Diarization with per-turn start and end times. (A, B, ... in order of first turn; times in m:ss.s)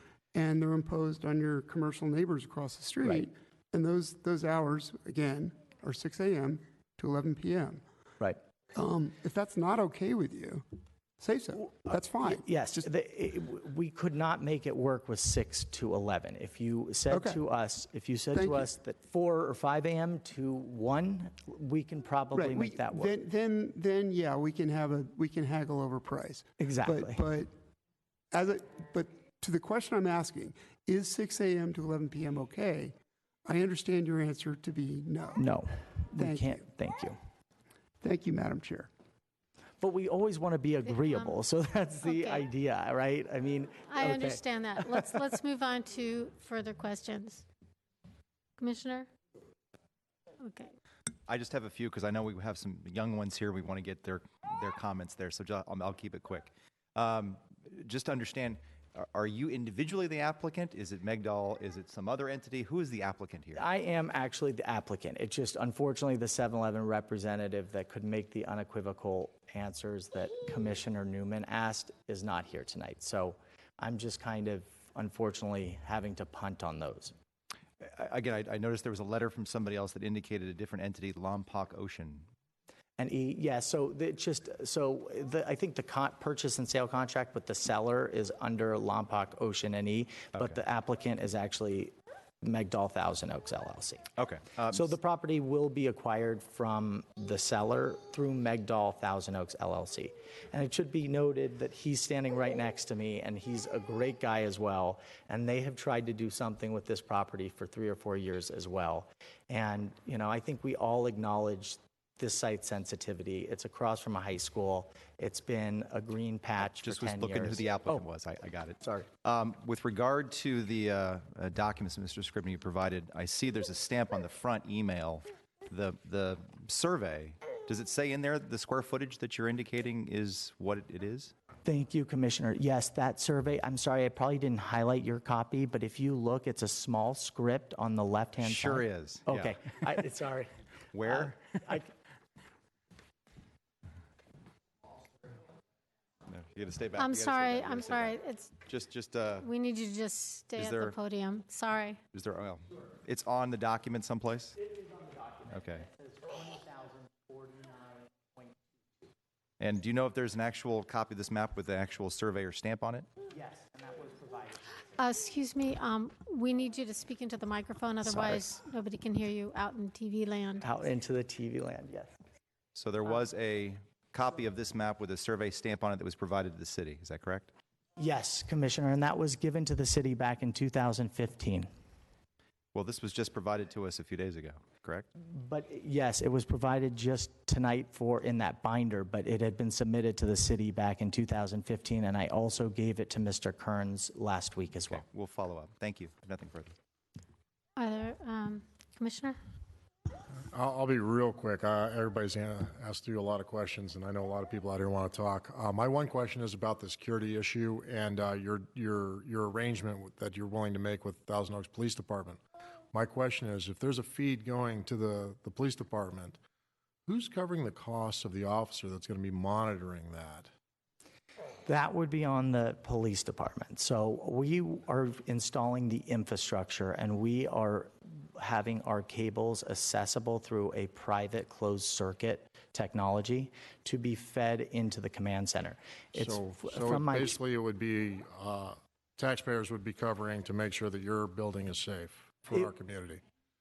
0:00.3-0:07.8 A
0:08.7-0:10.6 A
0:11.2-0:12.9 A
0:11.9-0:23.2 B
0:17.1-0:17.4 A
0:18.3-0:18.7 A
0:22.3-0:27.5 A
0:26.6-0:27.2 B
0:28.3-0:32.9 A
0:33.4-0:35.4 A
0:35.4-0:37.2 B
0:36.2-0:36.6 A
0:38.0-0:38.9 A
0:39.8-0:45.2 B
0:40.8-0:41.4 C
0:42.0-0:42.5 C
0:43.9-0:47.4 C
0:48.6-0:49.1 C
0:50.4-0:50.7 C
0:51.3-1:03.6 D
1:03.5-1:17.1 B
1:17.8-1:22.2 D
1:23.0-1:34.1 B
1:34.2-1:34.9 D
1:34.7-1:58.1 B
1:56.6-2:11.3 D
1:58.8-1:59.1 B
2:11.6-2:21.9 B
2:18.4-2:19.7 D
2:20.9-2:21.4 D
2:26.3-2:29.5 D
2:27.0-2:28.6 C
2:29.4-2:32.0 C
2:30.6-2:31.0 D
2:32.1-2:34.6 D
2:34.7-2:38.6 B
2:35.5-2:35.8 D
2:39.6-2:43.1 D
2:43.3-2:44.8 B
2:45.0-2:50.7 C
2:48.0-2:48.3 B
2:50.6-2:52.1 B
2:52.7-2:57.5 D
2:58.0-3:01.7 B
3:02.7-3:05.1 D
3:05.3-3:15.0 B
3:14.9-3:16.7 D
3:17.8-3:19.4 C
3:20.5-3:32.4 E
3:32.9-3:36.4 E
3:37.0-3:40.5 E
3:41.6-3:57.4 B
3:56.1-4:03.2 E